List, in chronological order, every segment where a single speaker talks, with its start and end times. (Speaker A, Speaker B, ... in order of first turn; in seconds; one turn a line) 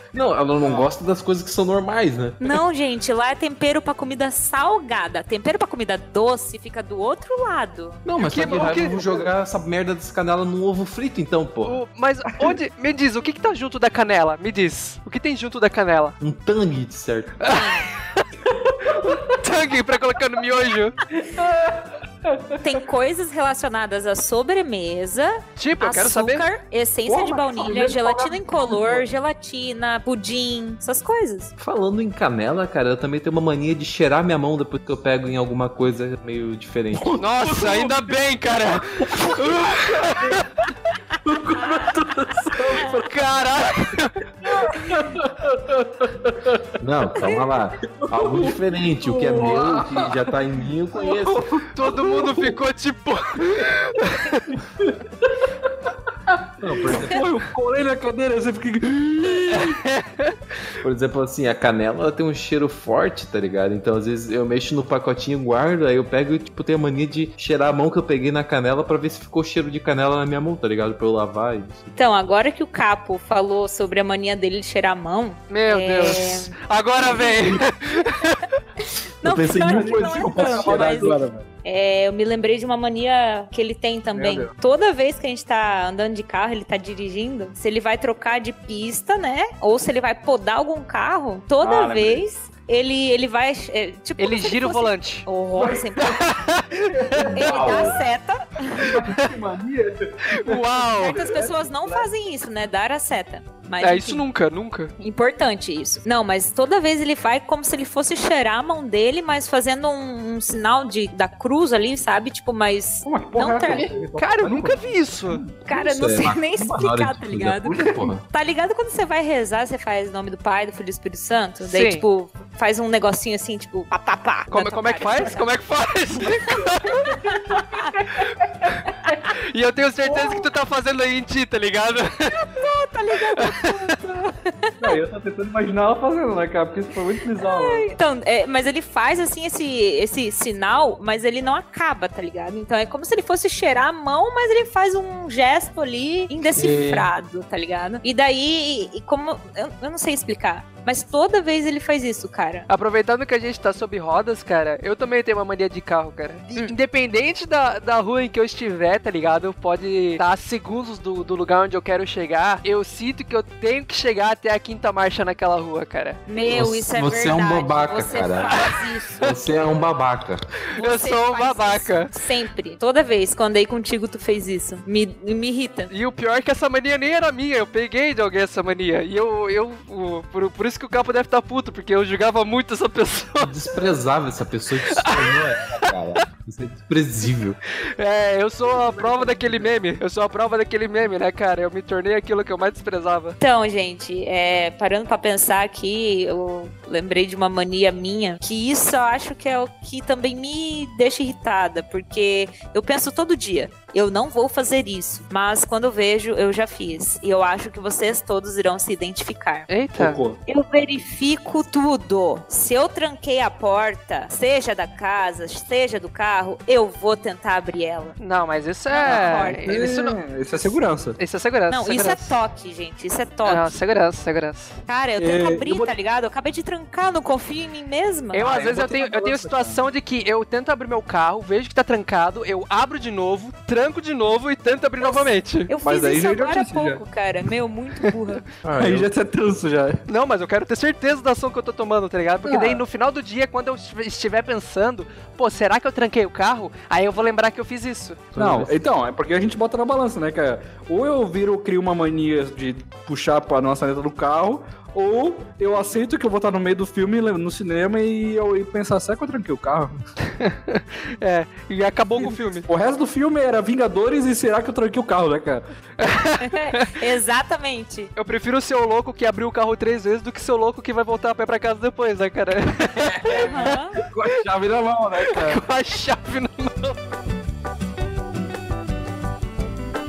Speaker A: 0.1-2.5
Speaker B: 0.6-0.9
Speaker C: 2.4-8.0
Speaker A: 8.0-11.8
Speaker D: 8.2-9.0
Speaker B: 8.2-9.3
Speaker D: 11.6-16.2
Speaker A: 16.2-17.4
Speaker D: 17.4-18.3
Speaker C: 17.5-17.9
Speaker B: 18.4-19.3
Speaker D: 18.9-21.0
Speaker B: 21.1-22.7
Speaker C: 22.6-31.5
Speaker D: 25.6-26.5
Speaker B: 27.1-29.1
Speaker A: 31.6-37.2
Speaker B: 37.0-38.1
Speaker D: 37.2-40.5
Speaker B: 39.0-40.4
Speaker B: 41.2-43.2
Speaker D: 42.8-44.2
Speaker B: 44.4-46.7
Speaker A: 46.8-51.4
Speaker B: 48.0-50.3
Speaker B: 51.0-52.6
Speaker D: 51.7-54.5
Speaker B: 53.5-53.8
Speaker B: 54.5-59.8
Speaker A: 56.6-57.2
Speaker D: 59.5-60.4
Speaker A: 60.8-71.9
Speaker C: 72.0-77.4
Speaker D: 75.5-78.5
Speaker C: 78.8-96.3
Speaker A: 79.2-81.4
Speaker B: 79.5-81.3
Speaker B: 84.1-84.5
Speaker B: 91.6-92.2
Speaker D: 94.2-95.2
Speaker B: 95.5-96.1
Speaker D: 96.0-97.3
Speaker B: 96.7-98.0
Speaker A: 97.2-98.0
Speaker C: 97.3-99.0
Speaker B: 98.7-102.1
Speaker D: 100.3-101.2
Speaker C: 101.0-104.2
Speaker D: 103.8-104.9
Speaker C: 105.0-113.9
Speaker B: 113.0-115.5
Speaker D: 114.2-115.4
Speaker C: 115.7-125.5
Speaker A: 115.7-118.2
Speaker D: 121.6-122.0
Speaker D: 124.5-127.1
Speaker B: 126.2-128.7
Speaker C: 127.5-127.9
Speaker D: 129.3-132.4
Speaker C: 132.3-134.9
Speaker D: 133.3-134.0
Speaker B: 134.8-137.9
Speaker C: 137.4-152.7
Speaker A: 146.5-147.1
Speaker D: 152.7-166.2
Speaker C: 166.3-169.3
Speaker A: 166.5-168.6
Speaker D: 168.4-169.3
Speaker A: 169.2-170.5
Speaker C: 170.7-175.9
Speaker D: 170.8-172.1
Speaker D: 175.9-183.5
Speaker A: 183.4-187.6
Speaker D: 184.8-185.9
Speaker D: 188.0-193.4
Speaker C: 193.4-209.7
Speaker D: 209.7-210.2
Speaker B: 210.0-210.4
Speaker C: 210.4-218.2
Speaker D: 218.2-220.7
Speaker C: 218.9-219.7
Speaker B: 219.0-221.2
Speaker D: 221.2-222.3
Speaker C: 221.7-223.7
Speaker D: 223.4-224.8
Speaker C: 224.8-228.5
Speaker B: 225.2-225.9
Speaker D: 228.3-235.7
Speaker B: 228.4-229.8
Speaker C: 235.0-238.4
Speaker B: 235.8-237.0
Speaker A: 238.6-239.1
Speaker B: 238.8-240.0
Speaker D: 240.1-248.3
Speaker B: 242.5-242.8
Speaker A: 248.3-248.8
Speaker B: 248.3-260.0
Speaker D: 260.3-262.7
Speaker B: 262.7-265.6
Speaker D: 266.0-267.0
Speaker C: 266.4-268.1
Speaker D: 268.1-274.3
Speaker B: 272.9-275.6
Speaker C: 273.3-274.0
Speaker D: 275.2-277.0